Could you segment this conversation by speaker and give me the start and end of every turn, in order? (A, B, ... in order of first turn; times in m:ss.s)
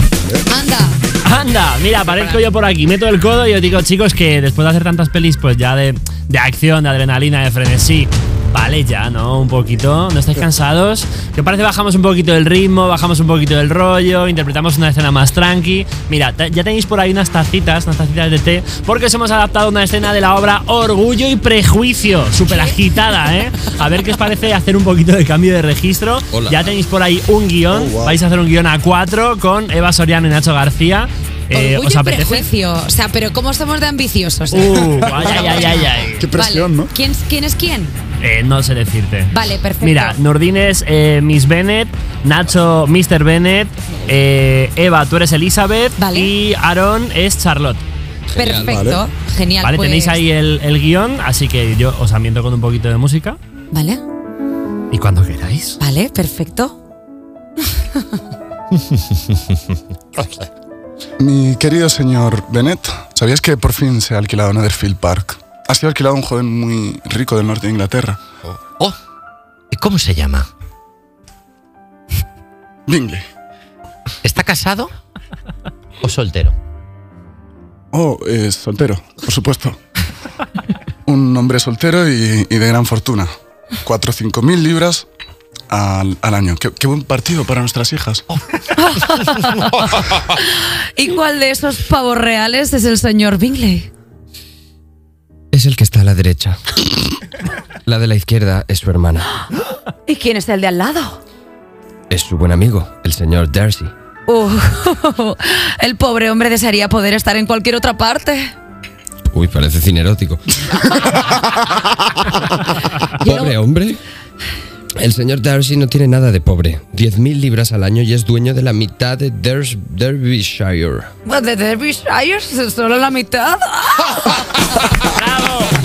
0:00.5-0:01.0 A
0:01.3-0:32.4 B
0:02.0-0:02.4 C
0:22.4-0:22.8 A
0:26.3-0:26.7 D
0:27.7-0:28.2 E
0:31.5-0:37.9 A
0:34.6-0:36.2 B
0:34.8-0:35.6 E
0:36.2-0:36.9 E
0:38.2-0:39.2 B
0:39.3-0:40.2 A
0:39.8-0:47.8 B
0:43.9-0:44.2 D
0:46.0-0:46.3 A
0:48.3-0:48.8 D
0:48.3-0:50.2 A
0:48.6-0:49.0 E
0:49.6-0:53.4 B
0:53.7-0:54.0 A
0:54.9-0:55.8 B
0:55.8-0:56.8 A
1:01.2-1:08.2 E
1:09.7-1:10.5 C
1:12.9-1:13.2 E
1:14.2-1:14.9 C
1:16.0-1:16.5 C
1:17.9-1:19.8 E
1:21.0-1:25.1 E
1:25.7-1:28.3 E
1:28.8-1:33.9 A
1:35.5-1:37.2 D
1:37.8-1:39.4 D
1:40.1-1:41.2 A
1:42.1-1:43.9 D
1:44.3-1:48.5 A
1:49.3-1:54.0 D
1:53.2-1:53.6 A
1:55.0-2:01.1 D
2:01.2-2:04.9 A
2:05.3-2:05.6 B